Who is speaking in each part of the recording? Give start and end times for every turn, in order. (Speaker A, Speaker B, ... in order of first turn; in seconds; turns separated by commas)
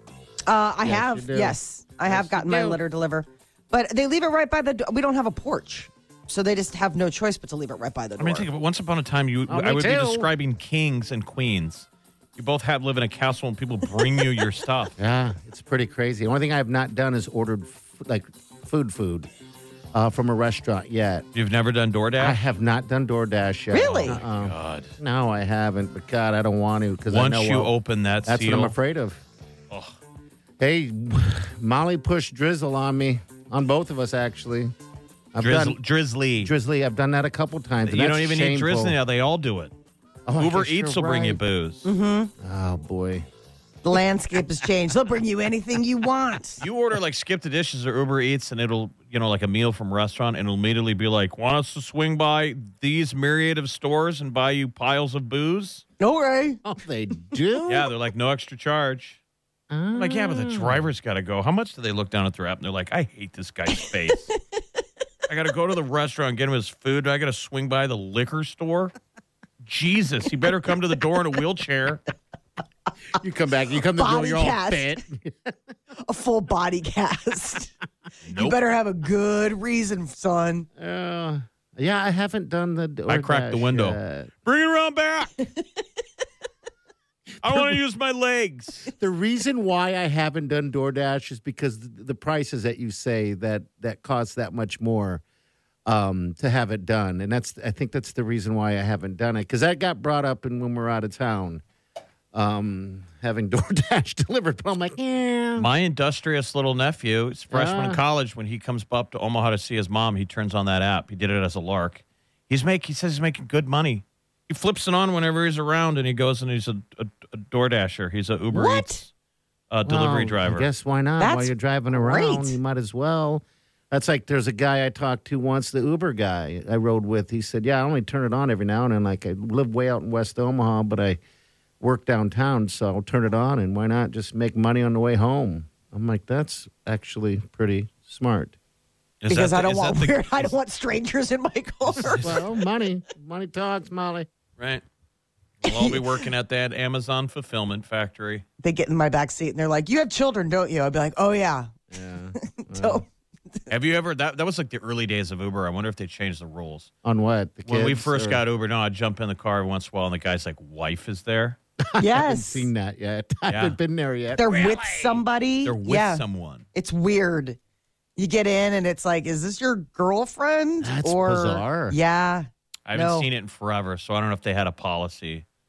Speaker A: 0.5-8.5, Speaker B: 0.8-2.8, Speaker C: 8.2-14.9, Speaker B: 9.5-10.3, Speaker B: 15.0-19.3, Speaker B: 19.9-21.2, Speaker C: 21.3-22.4, Speaker B: 22.2-27.7, Speaker A: 23.7-24.2, Speaker C: 23.8-24.9, Speaker C: 27.1-28.7, Speaker B: 28.2-29.2, Speaker C: 29.7-29.9, Speaker B: 30.6-34.7, Speaker B: 35.3-35.8, Speaker C: 35.4-36.5, Speaker B: 36.4-39.0, Speaker C: 37.8-39.7, Speaker B: 40.3-41.4, Speaker C: 40.4-41.9, Speaker A: 41.8-42.3, Speaker B: 42.4-43.2, Speaker A: 43.8-46.6, Speaker C: 46.6-55.8, Speaker A: 56.0-56.6, Speaker B: 56.6-57.9, Speaker C: 57.7-59.2, Speaker B: 59.7-60.8, Speaker C: 59.9-64.3, Speaker C: 65.3-68.9, Speaker C: 69.6-72.0, Speaker B: 73.2-75.5, Speaker A: 73.9-75.0, Speaker A: 76.0-77.7, Speaker C: 78.2-78.6, Speaker A: 78.3-80.7, Speaker B: 80.8-84.3, Speaker C: 83.1-85.4, Speaker C: 87.4-88.9, Speaker B: 87.4-87.8, Speaker B: 88.9-95.2, Speaker B: 95.8-101.6, Speaker B: 102.3-105.7, Speaker C: 105.5-119.1, Speaker B: 107.5-108.0, Speaker A: 118.5-119.0, Speaker C: 119.7-120.7, Speaker B: 119.8-131.2, Speaker A: 121.2-122.6, Speaker B: 131.8-138.5, Speaker C: 139.2-140.5, Speaker A: 139.3-142.4, Speaker C: 141.9-142.4, Speaker B: 142.1-144.3, Speaker C: 144.6-144.8, Speaker C: 145.6-148.4, Speaker A: 145.6-146.2, Speaker A: 148.6-151.7, Speaker B: 151.9-153.0, Speaker A: 152.4-153.1, Speaker C: 153.7-156.9, Speaker B: 157.0-158.4, Speaker C: 157.7-161.6, Speaker B: 161.9-165.2, Speaker A: 162.0-162.7, Speaker C: 163.5-163.8, Speaker A: 164.3-166.2, Speaker C: 165.6-166.7, Speaker A: 166.7-167.6, Speaker A: 168.2-173.3, Speaker B: 170.8-171.9, Speaker C: 172.8-175.4